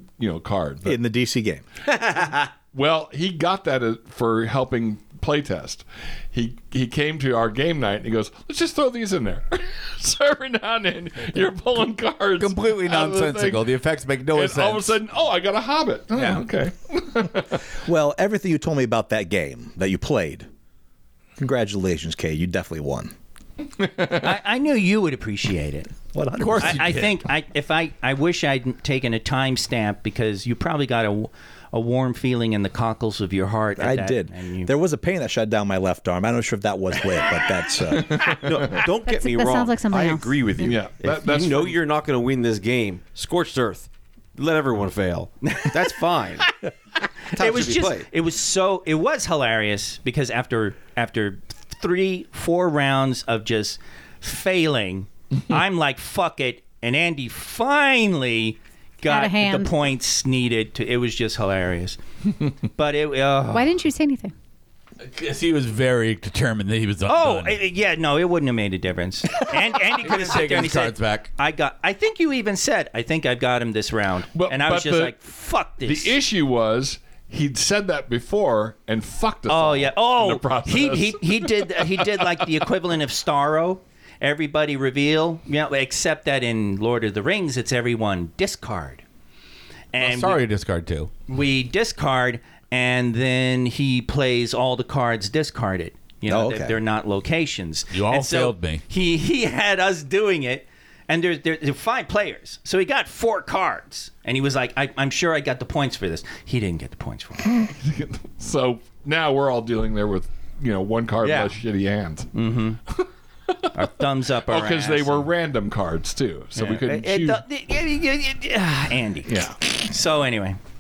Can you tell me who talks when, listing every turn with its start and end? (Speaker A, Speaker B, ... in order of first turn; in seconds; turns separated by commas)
Speaker A: 0.2-1.0, Speaker B: 0.8-1.6, Speaker C: 1.9-2.5, Speaker A: 2.7-13.6, Speaker D: 12.4-15.0, Speaker A: 14.3-17.6, Speaker D: 16.1-16.4, Speaker B: 17.8-20.5, Speaker B: 21.4-23.1, Speaker A: 23.8-24.4, Speaker E: 24.2-34.7, Speaker B: 26.1-27.1, Speaker B: 33.8-38.3, Speaker A: 38.0-38.4, Speaker C: 38.2-46.5, Speaker F: 39.1-40.8, Speaker A: 40.6-41.8, Speaker E: 45.4-45.9, Speaker C: 47.3-48.1, Speaker E: 47.4-62.0, Speaker F: 59.0-59.7, Speaker E: 62.8-63.7, Speaker F: 63.5-64.3, Speaker D: 65.0-67.6, Speaker E: 67.1-76.2, Speaker D: 69.5-71.3, Speaker A: 74.3-75.2, Speaker A: 75.8-82.5, Speaker E: 79.5-89.0, Speaker E: 89.9-90.4, Speaker D: 90.0-91.1, Speaker E: 91.3-107.5, Speaker B: 96.3-96.8, Speaker D: 97.9-98.8, Speaker A: 107.7-112.3, Speaker D: 111.2-111.5, Speaker E: 112.3-112.8, Speaker A: 113.5-113.9, Speaker E: 113.8-115.3, Speaker A: 114.4-117.4, Speaker E: 116.5-120.6, Speaker A: 119.3-119.5